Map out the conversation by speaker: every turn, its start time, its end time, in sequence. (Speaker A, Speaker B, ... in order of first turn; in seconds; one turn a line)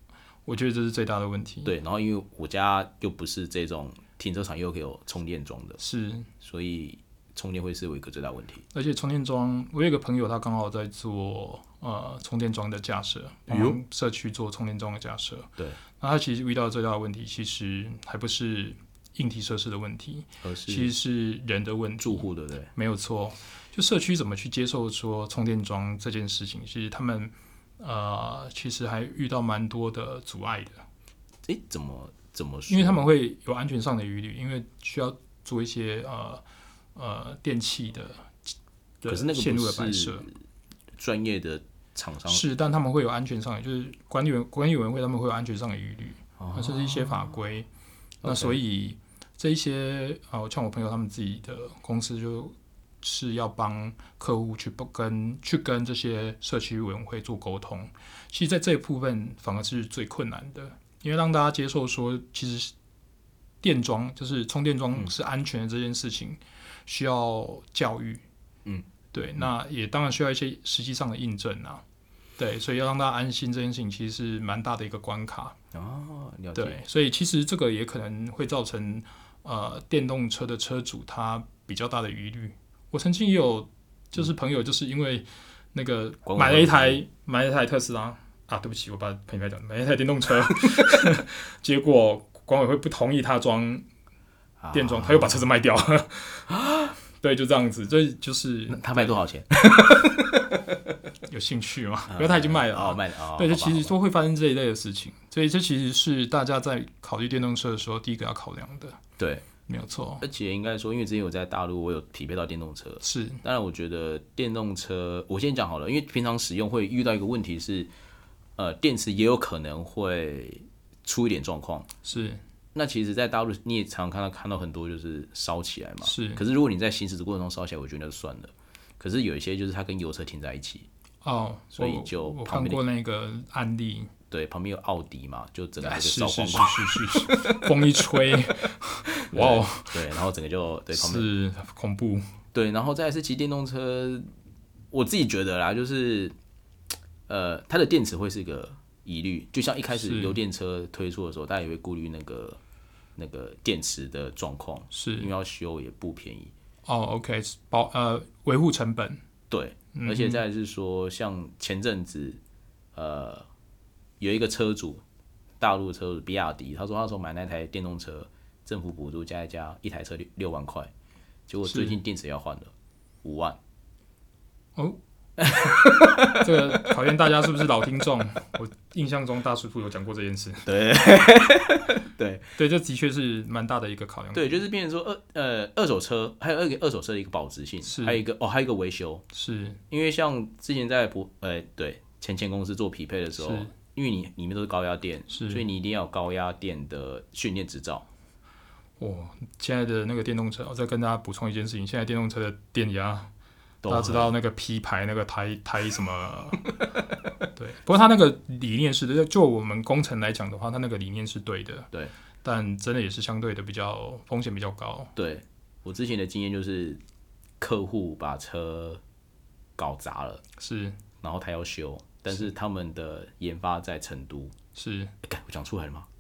Speaker A: 0.5-1.7
Speaker B: 1.6-5.8
Speaker A: 5.8-6.3
Speaker B: 6.4-8.7
Speaker A: 8.7-30.8
Speaker B: 13.5-13.8
Speaker B: 20.4-20.9
Speaker B: 22.0-22.7
Speaker B: 31.5-33.0
Speaker A: 32.7-36.4
Speaker A: 37.0-38.4
Speaker A: 39.0-40.3
Speaker B: 39.1-40.3
Speaker B: 41.0-42.4
Speaker A: 42.3-47.7
Speaker B: 46.4-47.4
Speaker A: 48.2-62.7
Speaker B: 48.2-48.6
Speaker A: 63.6-68.2
Speaker A: 69.1-71.8
Speaker A: 72.4-75.6
Speaker B: 75.7-76.8
Speaker A: 76.5-93.9
Speaker B: 86.2-87.0
Speaker B: 94.6-95.4
Speaker A: 94.7-96.5
Speaker A: 97.2-99.2
Speaker B: 98.7-100.6
Speaker A: 101.3-109.0
Speaker B: 102.1-104.0
Speaker B: 109.2-109.5
Speaker A: 109.7-110.2
Speaker B: 110.2-117.9
Speaker A: 113.0-113.4
Speaker B: 118.6-121.9
Speaker A: 122.0-122.4
Speaker B: 122.8-130.9
Speaker A: 126.0-126.4
Speaker A: 131.2-134.1
Speaker B: 131.8-132.8
Speaker B: 134.3-137.6
Speaker A: 135.8-140.0
Speaker B: 139.3-141.3
Speaker A: 140.9-142.2
Speaker B: 142.5-144.3
Speaker B: 144.9-146.3
Speaker B: 147.3-152.6
Speaker A: 149.9-150.4
Speaker B: 153.2-156.5
Speaker A: 154.9-155.3
Speaker A: 156.9-159.2
Speaker B: 159.5-162.4
Speaker A: 159.9-160.4
Speaker B: 162.9-163.5
Speaker B: 164.2-165.0
Speaker B: 165.6-170.9
Speaker B: 171.5-172.7
Speaker A: 171.7-172.0
Speaker B: 173.2-173.6
Speaker B: 175.4-176.8
Speaker A: 176.3-180.7
Speaker B: 180.7-182.4
Speaker A: 182.6-184.6
Speaker B: 184.3-189.2
Speaker A: 187.8-188.2
Speaker A: 189.3-189.8
Speaker B: 189.9-198.1
Speaker A: 193.4-193.7
Speaker A: 195.3-195.6
Speaker A: 199.0-203.3
Speaker B: 203.8-204.3
Speaker A: 203.9-206.6
Speaker A: 207.6-211.9
Speaker A: 212.4-215.1
Speaker B: 215.2-217.0
Speaker B: 217.6-219.0
Speaker B: 219.8-220.4
Speaker A: 220.6-221.0
Speaker B: 221.2-224.5
Speaker A: 224.8-225.1
Speaker B: 225.2-226.1